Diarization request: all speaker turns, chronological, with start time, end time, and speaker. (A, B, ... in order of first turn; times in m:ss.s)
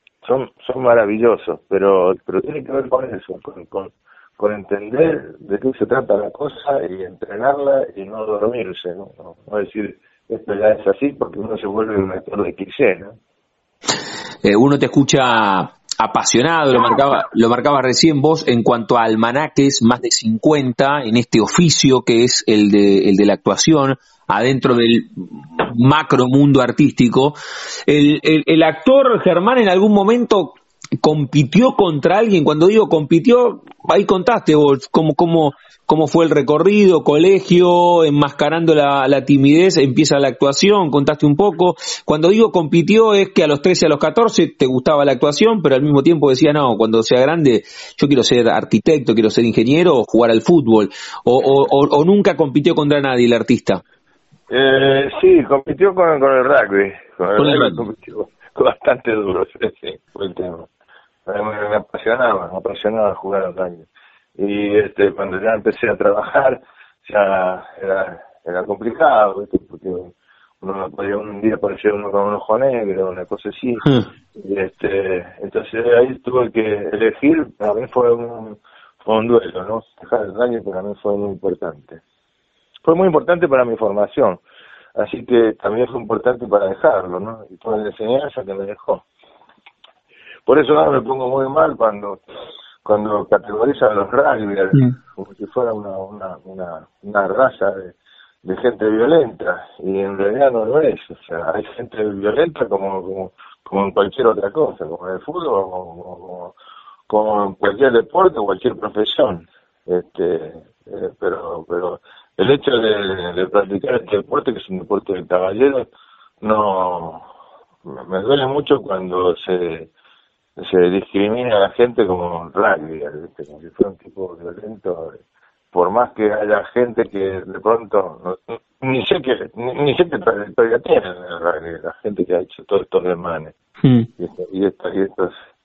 0:00.2-0:13.2 A
0:14.4-0:53.8 B
0:54.5-1:00.7 A
0:57.4-0:57.8 B
1:01.2-1:03.9 A
1:04.4-1:22.0 A
1:22.8-1:24.4 A
1:25.0-1:29.0 A
1:30.5-1:32.2 A
1:32.8-1:46.5 A
1:47.1-1:55.9 A
1:56.4-1:57.2 A
1:57.9-1:59.9 A
2:00.6-2:05.2 A
2:05.7-2:13.5 A
2:13.8-2:14.1 B
2:14.2-2:15.3 A